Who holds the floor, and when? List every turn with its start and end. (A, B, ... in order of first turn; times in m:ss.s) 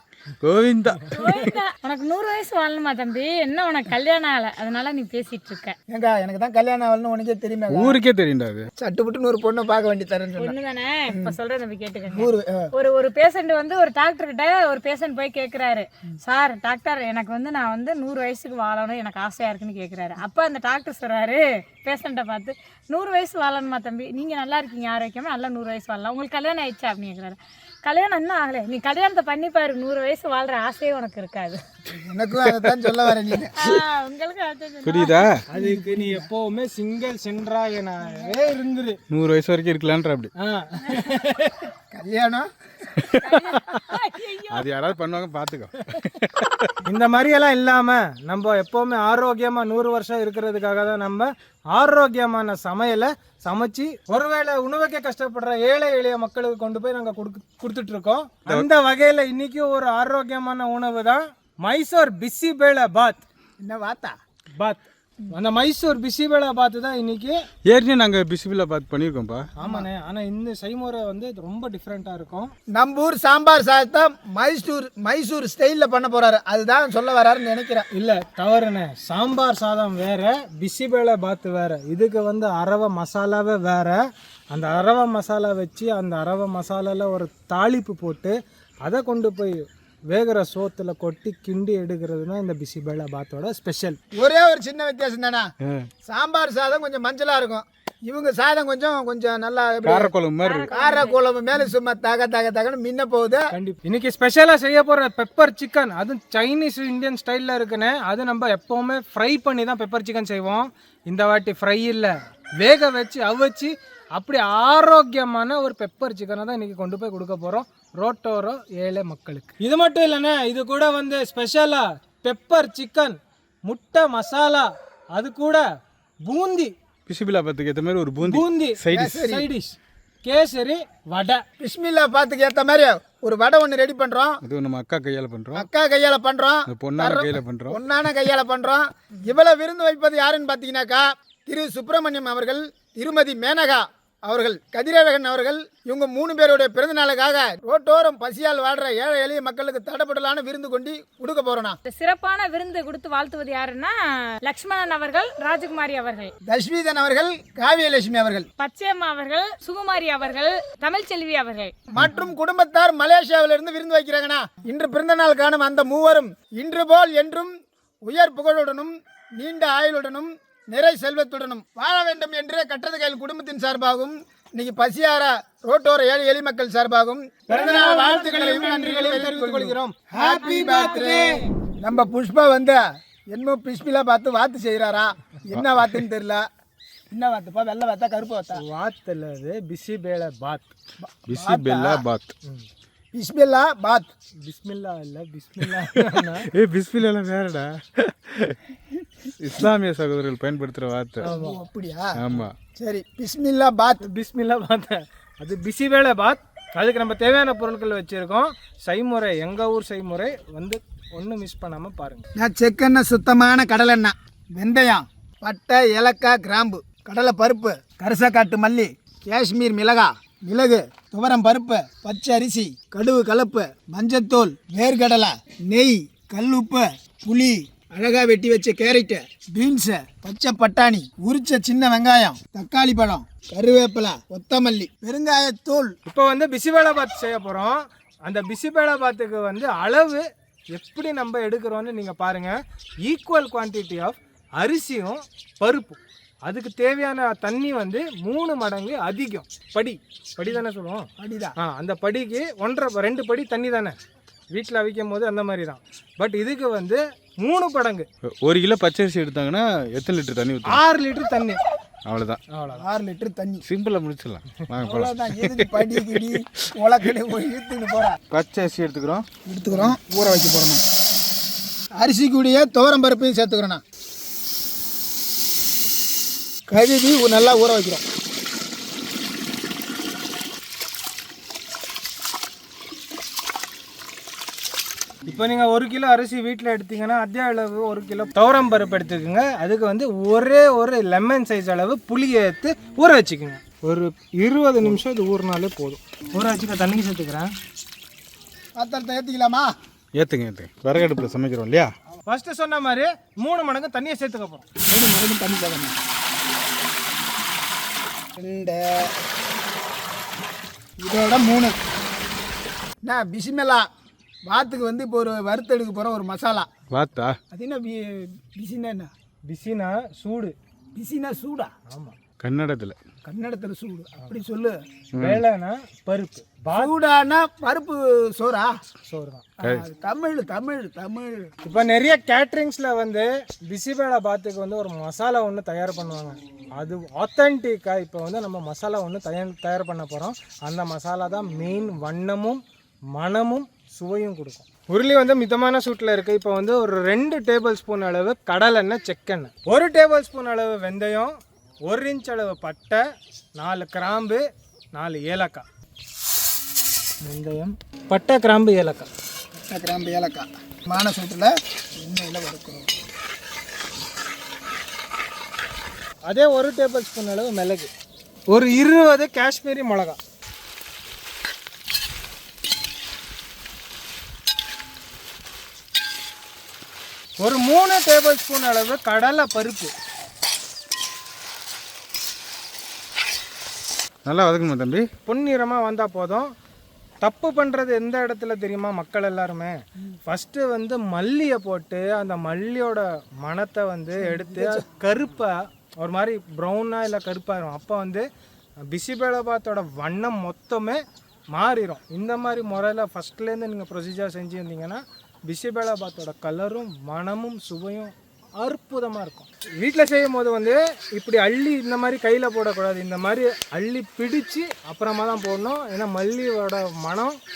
0:00.4-0:01.5 A
0:01.1-0:05.8 B
0:05.9-0:08.0 C
0:07.7-0:08.7 A
0:08.8-0:10.6 C
0:10.4-0:31.6 B
0:11.1-0:11.4 C
0:12.1-0:12.7 C
0:31.9-0:33.8 C
0:32.4-0:33.0 A
0:33.6-0:35.3 B
0:34.8-0:35.4 A
0:35.5-0:39.0 D
0:35.5-0:36.3 C
0:39.1-0:40.3 A
0:40.4-0:41.7 D
0:41.9-0:42.5 C
0:43.0-0:43.6 A
0:43.2-0:44.7 B
0:44.5-0:46.8 A
0:46.8-1:03.2 D
1:03.6-1:04.1 C
1:04.6-1:07.4 D
1:07.6-1:09.5 A
1:09.6-1:12.5 D
1:09.6-1:09.9 C
1:12.7-1:17.8 C
1:17.9-1:34.0 D
1:34.1-1:35.5 C
1:35.6-1:35.9 A
1:36.0-1:40.1 C
1:39.8-1:40.7 A
1:40.4-1:41.2 B
1:40.7-1:43.5 C
1:43.5-2:05.6 D
2:06.2-2:06.7 D
2:07.1-2:09.3 A
2:08.2-2:11.4 D
2:08.9-2:09.5 C
2:11.6-2:14.4 C
2:14.4-2:15.7 A
2:15.5-2:31.8 C
2:16.7-2:17.8 A
2:31.8-2:36.3 B
2:36.4-2:38.5 C
2:38.6-2:41.9 B
2:41.9-3:06.4 C
2:57.5-3:01.4 D
3:01.1-3:01.3 B
3:07.1-3:08.6 C
3:08.5-3:10.7 D
3:11.0-3:12.0 C
3:11.3-3:12.3 A
3:13.1-3:14.1 C
3:14.4-3:16.5 D
3:15.6-3:18.6 A
3:19.4-3:21.3 A
3:21.2-3:24.0 C
3:21.2-3:21.6 D
3:22.2-3:22.5 A
3:24.0-3:32.2 D
3:32.4-3:55.9 C
3:56.0-4:14.0 D
4:11.2-4:11.6 C
4:14.5-4:18.1 D
4:18.3-4:20.8 A
4:20.6-4:21.6 D
4:22.0-4:22.4 A
4:22.5-4:22.8 D
4:22.7-4:23.6 C
4:23.6-4:26.4 A
4:24.8-4:28.2 C
4:28.3-4:29.3 A
4:29.4-4:30.8 C
4:29.7-4:30.0 D
4:32.0-4:33.8 C
4:36.7-4:38.0 C
4:45.3-4:57.5 D
4:58.8-4:59.7 C
5:00.2-5:01.9 A
5:02.2-5:04.6 D
5:04.9-5:06.0 C
5:08.4-5:09.1 C
5:11.0-5:11.8 C
5:13.0-5:13.9 C
5:14.4-5:16.7 C
5:16.9-5:17.4 A
5:17.5-5:19.1 C
5:19.5-5:20.5 D
5:21.0-5:21.7 C
5:21.9-5:22.2 D
5:22.4-5:23.0 A
5:23.2-5:24.8 C
5:25.1-5:25.4 A
5:25.2-5:26.9 D
5:26.7-5:28.7 C
5:29.0-5:29.5 D
5:29.6-5:31.5 C
5:29.6-5:29.8 A
5:31.6-5:42.6 D
5:43.1-5:53.0 D
5:53.6-5:55.6 D
5:57.2-5:59.1 D
5:59.6-6:02.9 C
6:06.3-6:07.9 D
6:08.5-6:10.2 D
6:17.4-6:19.9 D
6:24.2-6:25.1 A
6:25.2-6:26.5 D
6:27.2-6:38.2 D
6:34.2-6:34.8 C
6:38.8-6:57.4 D